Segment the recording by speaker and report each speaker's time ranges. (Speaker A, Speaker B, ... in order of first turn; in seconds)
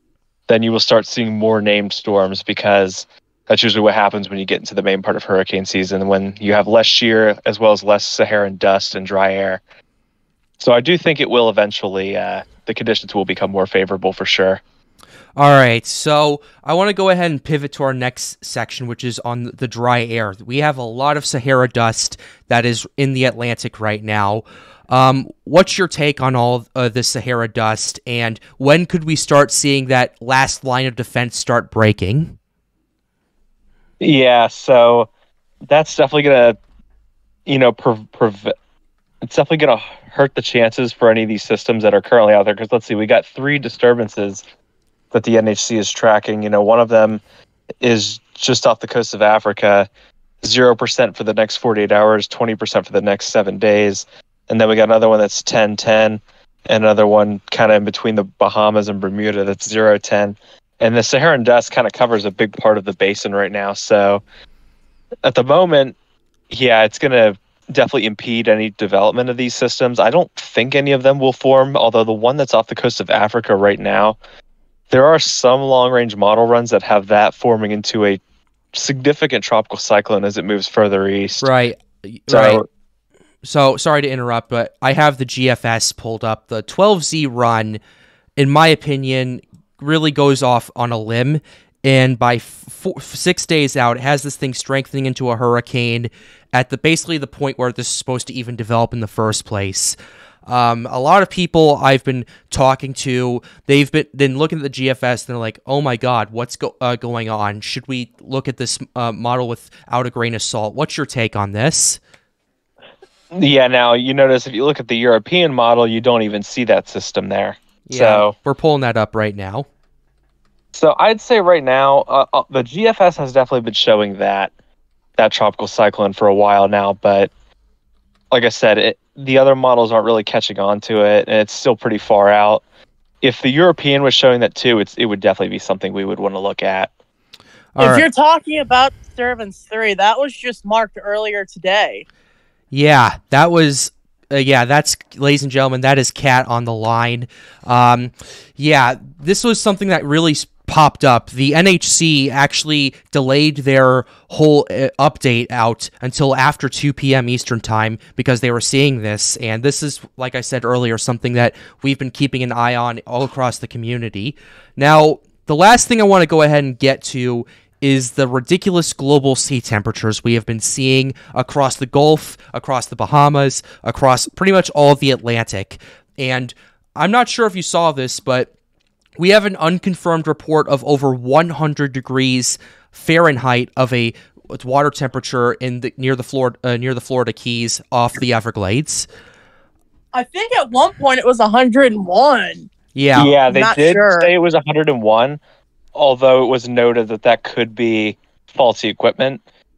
Speaker A: 0.5-9.6, 10.6-14.6, 34.0-35.1, 35.7-36.6, 37.5-38.5, 39.2-44.4, 45.1-47.2, 47.8-49.9, 50.4-64.2, 65.2-66.0, 66.5-74.2, 74.9-78.2, 78.7-81.5, 82.3-82.7, 113.3-118.3, 120.7-124.5, 125.2-127.3, 128.3-132.6, 133.2-136.9, 193.1-195.4, 195.9-199.4
Speaker B: 15.4-32.4, 81.4-82.6, 83.4-87.8, 88.4-112.0, 117.8-119.7, 137.8-138.1, 142.7-178.5, 179.2-189.1, 192.9-193.3
Speaker C: 137.8-142.0, 190.1-192.7, 193.4-194.3